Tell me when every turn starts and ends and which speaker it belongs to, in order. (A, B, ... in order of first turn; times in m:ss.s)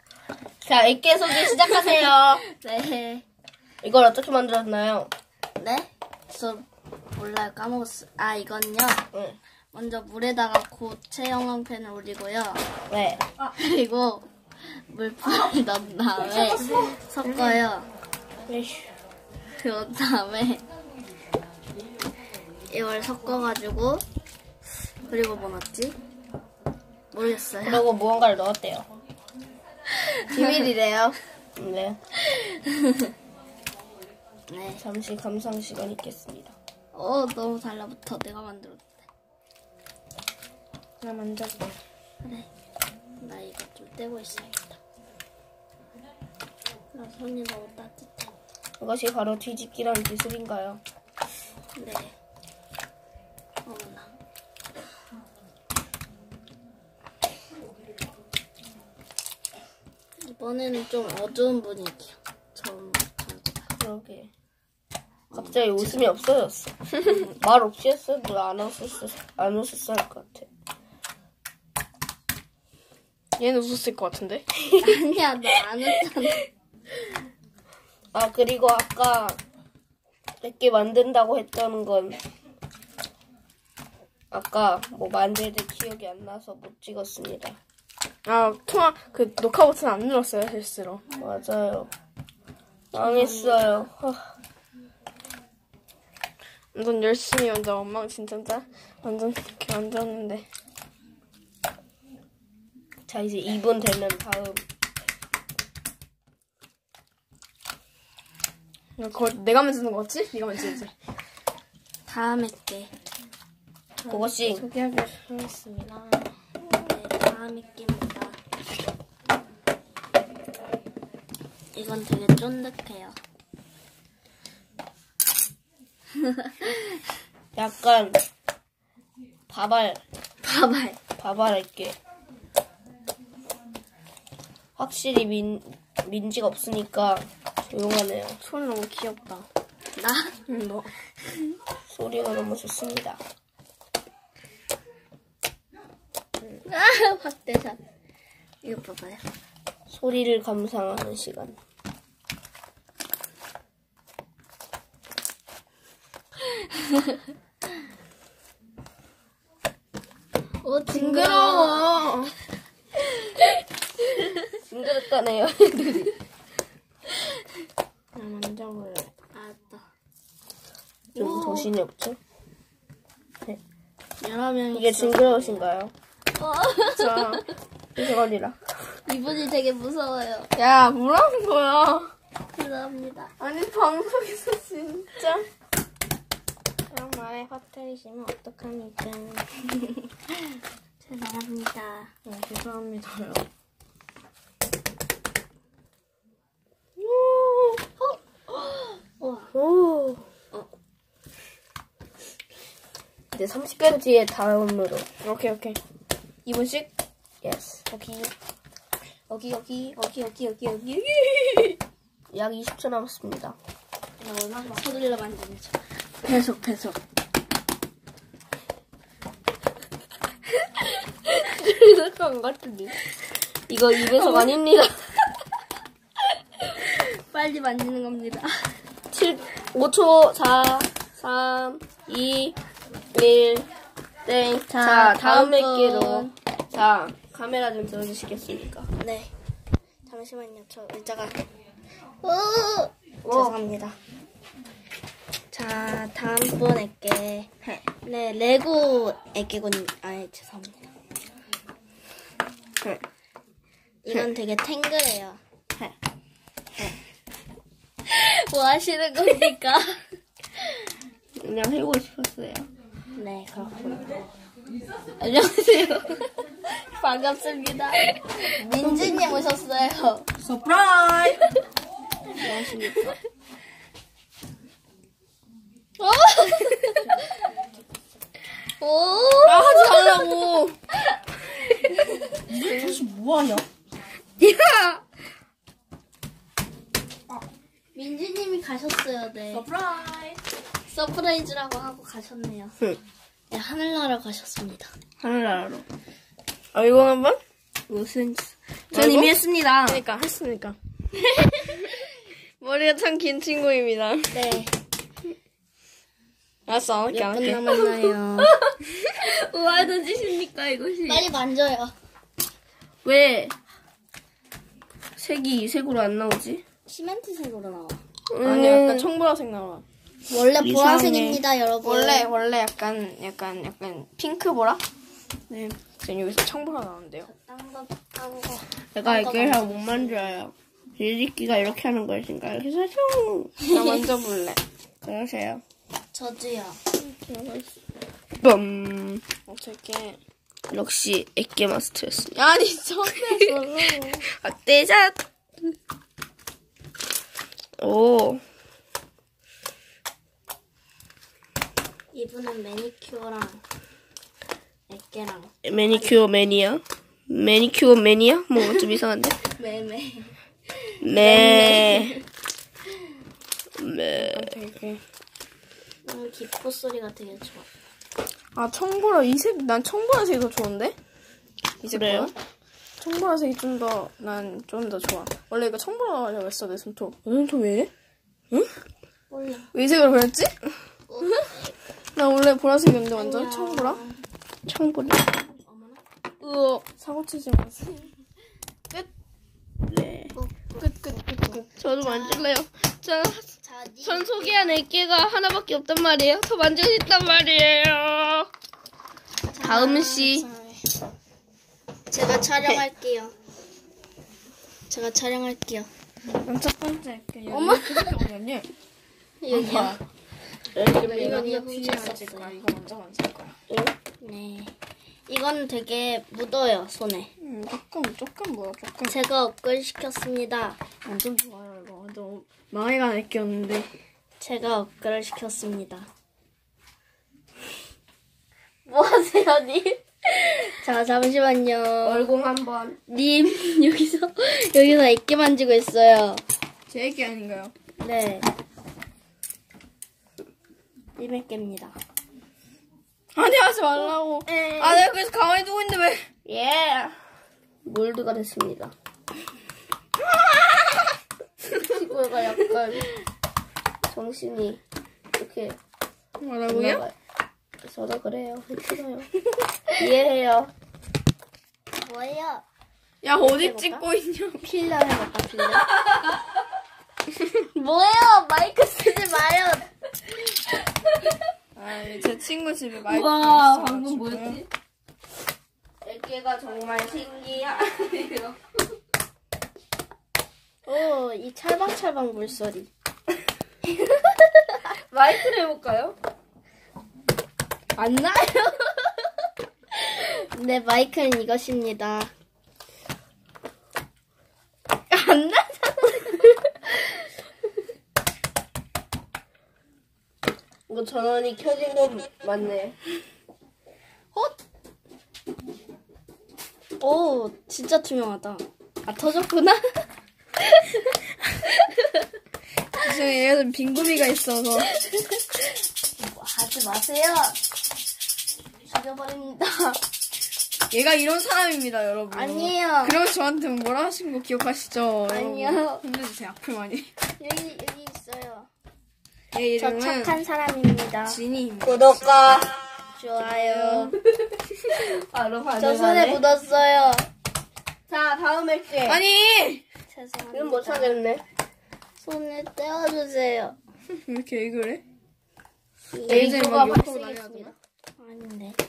0:00.6-0:02.4 A
0:01.5-0:03.2 B
0:03.8-0:05.1 A
0:05.6-0:09.1 B
0:09.1-0:09.4 A
0:09.7-0:12.7 B
0:12.9-0:13.3 A
0:13.4-0:17.9 B
0:16.4-0:17.0 C
0:16.6-0:17.6 A
0:18.5-0:18.9 A
0:19.5-0:20.6 B
0:22.7-0:24.0 B
0:25.1-0:26.0 B
0:27.1-0:27.8 B
0:27.6-0:28.9 A
0:30.2-0:31.2 C
0:31.6-0:32.0 A
0:32.2-0:33.1 B
0:34.5-0:34.8 B
0:34.8-0:36.6 A
0:36.9-0:39.0 B
0:41.0-0:41.7 C
0:42.2-0:42.5 B
0:43.2-0:44.8 B
0:46.9-0:48.4 B
0:48.8-0:50.8 A
0:51.8-0:52.2 B
0:53.7-0:54.1 B
1:00.2-1:03.7 B
1:03.8-1:04.3 A
1:05.3-1:06.1 B
1:05.3-1:10.5 A
1:13.4-1:14.4 C
1:14.7-1:15.0 A
1:14.8-1:16.4 B
1:18.1-1:19.4 A
1:20.4-1:22.2 A
1:24.3-1:27.6 A
1:28.3-1:31.0 C
1:31.2-1:31.9 A
1:32.9-1:34.3 A
1:32.9-1:33.7 B
1:36.7-1:40.5 C
1:43.1-1:44.6 A
1:49.0-1:50.9 C
1:52.1-1:52.9 B
1:54.0-1:54.6 A
1:54.1-1:56.3 C
1:56.7-1:58.4 B
2:01.7-2:03.2 B
2:06.2-2:06.8 B
2:07.6-2:08.2 A
2:09.5-2:10.0 A
2:10.4-2:11.0 B
2:11.2-2:12.0 A
2:14.8-2:18.4 A
2:18.4-2:19.5 C
2:20.0-2:20.4 B
2:20.5-2:20.9 C
2:21.9-2:23.2 A
2:26.6-2:27.8 B
2:28.6-2:29.3 B
2:29.9-2:31.6 A
2:36.7-2:37.2 B
2:40.6-2:42.0 B
2:40.9-2:42.3 C
2:43.0-2:43.6 B
2:44.7-2:46.1 A
2:48.2-2:49.0 C
2:48.2-2:49.9 B
2:51.2-2:51.7 B
2:51.2-2:52.2 A
2:54.2-2:55.7 B
2:54.7-2:55.9 A
2:56.4-2:57.4 B
2:57.0-2:57.5 C
2:58.0-2:58.6 A
2:59.1-3:00.5 B
3:00.6-3:02.1 C
3:02.5-3:03.3 B
3:03.4-3:05.5 C
3:06.9-3:09.4 C
3:09.7-3:10.3 B
3:11.0-3:12.1 B
3:12.2-3:13.5 C
3:17.3-3:17.6 A
3:18.0-3:19.5 B
3:19.5-3:20.2 A
3:23.3-3:25.1 A
3:25.2-3:25.8 C
3:26.5-3:26.9 C
3:27.4-3:27.8 A
3:27.9-3:28.3 C
3:29.3-3:31.7 B
3:32.3-3:33.6 A
3:34.2-3:35.8 B
3:36.2-3:37.0 C
3:41.6-3:43.0 A
3:43.7-3:45.2 A
3:44.1-3:44.6 B
3:46.6-3:48.8 B
3:49.1-3:52.6 A
3:53.1-3:53.7 A
3:54.2-3:58.9 A
3:54.8-3:56.3 B
3:59.0-3:59.3 B
4:00.1-4:01.4 B
4:02.2-4:04.0 B
4:03.3-4:03.6 A
4:05.5-4:07.5 B
4:08.0-4:10.9 B
4:14.0-4:15.4 B
4:18.1-4:20.0 B
4:21.4-4:22.7 A
4:23.1-4:24.1 B
4:25.2-4:30.3 B
4:28.6-4:29.2 A
4:30.4-4:31.5 C
4:32.4-4:33.2 B
4:32.4-4:33.0 C
4:32.5-4:33.0 A
4:36.0-4:37.4 B
4:38.8-4:42.4 B
4:39.4-4:40.8 C
4:42.5-4:43.6 C
4:42.6-4:43.0 A
4:44.4-4:45.0 B
4:47.9-4:49.7 B
4:49.5-4:50.4 C
4:50.9-4:52.8 B
4:53.5-4:54.9 B
4:55.2-4:55.9 A
4:56.7-5:00.0 A
4:58.9-5:00.8 C
5:01.4-5:01.8 B
5:01.6-5:04.5 C
5:04.3-5:04.7 B
5:06.7-5:07.9 C
5:07.1-5:07.6 A
5:07.1-5:08.6 B
5:09.0-5:09.4 C
5:09.2-5:11.3 A
5:11.0-5:12.0 B
5:13.0-5:13.6 A
5:15.2-5:16.6 A
5:16.9-5:18.0 B
5:18.3-5:19.1 A
5:18.4-5:19.8 C
5:20.3-5:22.3 B
5:20.6-5:21.4 A
5:21.8-5:24.8 C
5:25.5-5:27.3 C
5:27.2-5:30.4 B
5:28.9-5:33.6 A
5:33.6-5:34.0 B
5:33.7-5:34.6 C
5:35.0-5:35.6 A
5:36.1-5:36.8 B
5:37.0-5:37.7 C
5:38.4-5:39.2 A
5:39.4-5:40.2 C
5:40.7-5:42.4 A
5:42.4-5:44.3 C
5:44.3-5:45.2 A
5:47.8-5:48.4 A
5:52.1-5:53.6 B
5:54.9-5:56.1 B
5:55.6-5:59.4 A
5:59.4-6:02.2 B
6:01.0-6:02.2 A
6:03.8-6:04.6 A
6:04.2-6:05.0 C
6:06.0-6:07.7 B
6:08.6-6:11.0 C
6:11.8-6:12.3 C
6:11.8-6:12.3 A
6:13.0-6:17.9 C
6:19.3-6:19.7 B
6:19.7-6:20.7 C
6:21.1-6:21.7 B
6:22.2-6:24.0 C
6:23.2-6:24.2 B
6:24.7-6:25.2 A
6:24.7-6:25.2 C
6:25.4-6:26.0 B
6:26.4-6:28.1 C
6:29.9-6:30.3 A
6:30.4-6:31.0 B
6:30.8-6:31.7 C
6:31.5-6:32.5 B
6:31.8-6:33.5 A
6:33.6-6:34.8 B
6:34.0-6:38.5 A
6:39.5-6:40.1 B
6:39.6-6:40.5 A
6:39.7-6:40.9 C
6:42.1-6:43.3 B
6:44.9-6:45.9 B
6:46.4-6:48.7 C
6:47.5-6:48.2 B
6:49.4-6:50.0 B
6:49.6-6:50.0 A
6:49.6-6:49.9 C
6:50.7-6:51.5 A
6:50.8-6:53.6 C
6:51.1-6:52.6 B
6:53.7-6:54.0 A
6:54.2-6:54.7 B
6:55.3-6:57.3 B
6:57.4-6:59.2 C
6:59.1-7:00.8 B
7:01.0-7:03.9 C
7:04.4-7:06.1 B
7:08.9-7:12.3 B
7:12.0-7:13.0 A
7:13.1-7:16.4 B
7:16.9-7:17.7 C
7:18.0-7:18.5 B
7:21.2-7:22.0 B
7:23.4-7:26.3 C
7:24.6-7:25.0 B
7:26.5-7:27.2 A
7:27.8-7:28.9 A
7:31.8-7:33.1 A
7:34.1-7:34.8 A
7:35.4-7:35.8 A
7:36.4-7:37.0 C
7:36.7-7:37.1 A
7:37.8-7:39.3 A
7:40.0-7:40.7 A
7:42.0-7:42.6 B
7:43.2-7:44.7 C
7:43.4-7:44.1 B
7:44.6-7:45.9 B
7:47.5-7:49.9 B
7:51.8-7:54.6 C
7:53.1-7:54.6 B
7:56.0-7:58.6 A
8:00.9-8:02.9 B
8:04.1-8:04.6 B
8:04.8-8:06.2 A
8:08.0-8:09.1 B
8:10.0-8:12.3 B
8:15.1-8:16.9 B
8:20.9-8:23.0 A
8:27.0-8:30.0 B
8:30.6-8:32.3 B
8:33.0-8:34.9 C
8:34.8-8:37.6 B
8:38.9-8:40.0 B
8:40.9-8:47.1 C
8:42.3-8:43.2 B
8:45.3-8:46.0 B
8:47.4-8:48.7 B
8:49.5-8:50.4 C
8:49.8-8:51.4 B
8:51.3-8:52.1 C
8:51.8-8:52.8 A
8:53.2-8:54.2 B
8:53.4-8:54.2 C
8:54.9-8:56.4 A
8:55.8-8:57.3 B
8:58.1-8:59.2 A
8:59.0-8:59.8 C
9:00.1-9:01.2 B
9:00.5-9:01.4 A
9:02.2-9:03.8 B
9:04.2-9:05.0 C
9:06.1-9:07.7 A
9:06.2-9:06.9 B
9:06.3-9:07.8 C
9:08.2-9:08.8 B